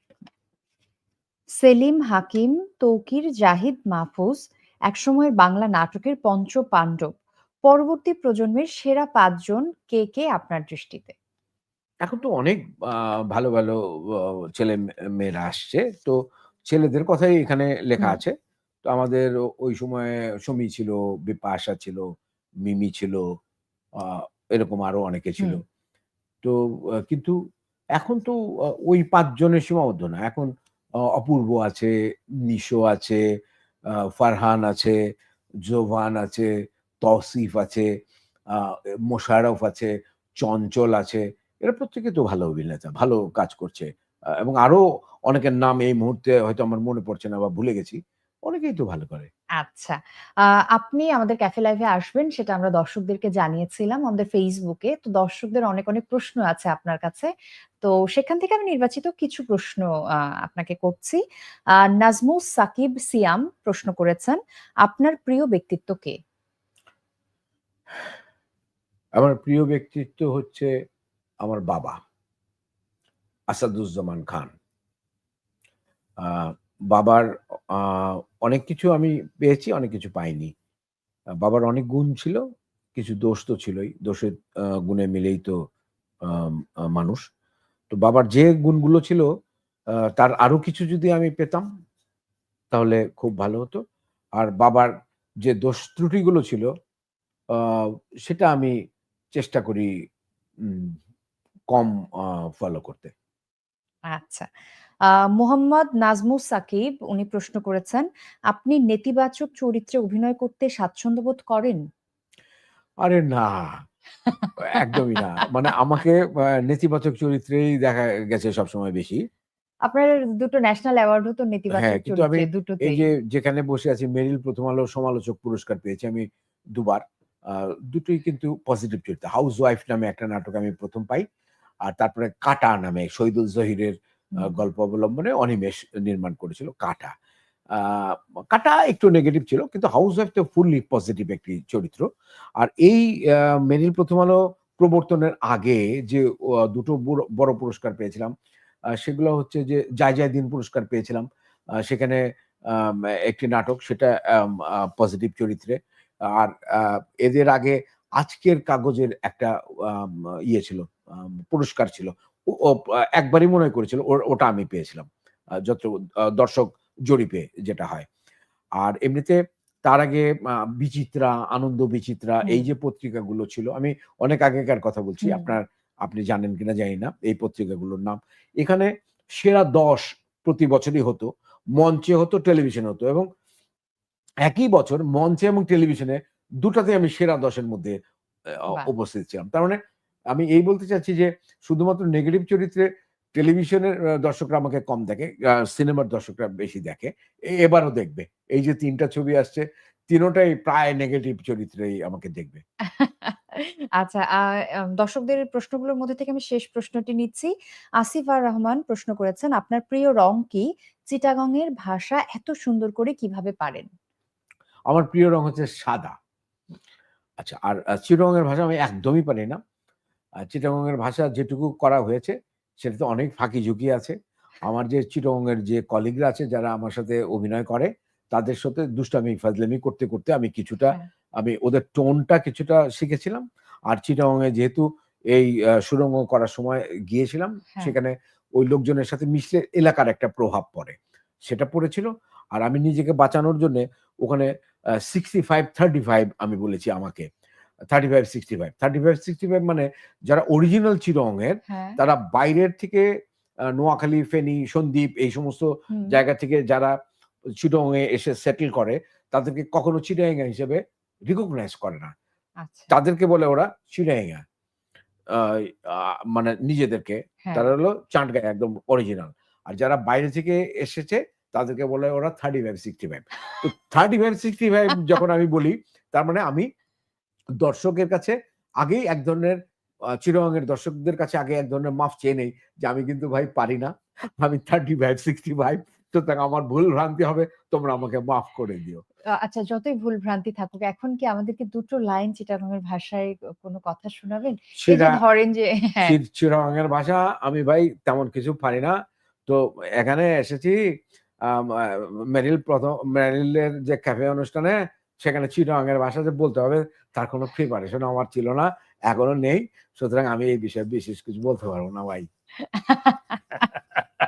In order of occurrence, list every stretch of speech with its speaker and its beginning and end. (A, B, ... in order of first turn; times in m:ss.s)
0:01.6-0:07.1 A
0:07.6-0:11.1 A
0:12.0-0:22.0 B
0:22.6-0:23.2 B
0:24.0-0:25.6 B
0:26.4-0:27.4 B
0:28.0-0:30.5 B
0:31.1-0:31.9 B
0:32.5-0:33.2 B
0:33.9-0:35.0 B
0:35.6-0:36.5 B
0:37.0-0:37.9 B
0:38.5-0:49.3 B
0:49.6-0:57.3 A
0:57.8-1:01.2 A
1:01.8-1:06.2 A
1:09.2-1:10.7 B
1:11.4-1:12.0 B
1:13.5-1:14.5 B
1:16.2-1:20.5 B
1:21.4-1:22.4 B
1:22.9-1:25.6 B
1:26.2-1:27.2 B
1:27.9-1:29.3 B
1:30.2-1:31.7 B
1:32.7-1:33.8 B
1:34.4-1:36.7 B
1:37.5-1:38.8 B
1:39.3-1:39.9 B
1:40.6-1:41.0 B
1:41.7-1:43.1 B
1:44.1-1:44.5 A
1:45.0-1:51.8 A
1:53.0-1:53.8 B
1:54.3-1:55.5 A
1:54.6-1:59.2 B
1:59.9-2:03.0 A
2:01.7-2:11.2 B
2:11.8-2:17.1 B
2:17.7-2:22.1 B
2:22.6-2:28.3 B
2:29.0-2:31.2 B
2:31.8-2:45.1 B
2:45.6-2:48.1 B
2:48.8-3:03.3 B
2:55.2-2:55.6 A
3:04.4-3:08.0 B
3:08.5-3:09.8 B
3:10.3-3:22.6 B
3:22.9-3:33.9 A
3:34.9-3:36.2 B
3:37.4-3:39.6 B
3:40.4-4:07.3 B
4:07.9-4:13.1 B
4:11.7-4:12.0 A
4:13.7-4:16.9 B
4:15.9-4:16.2 A
4:17.6-4:22.1 B
4:22.6-4:22.9 A
4:22.9-4:24.4 B
4:25.3-4:36.7 B
4:27.4-4:27.7 A
4:37.6-4:49.0 B
4:49.3-4:56.2 A
4:54.8-4:55.2 B
4:56.0-5:12.3 B
5:12.6-5:13.7 A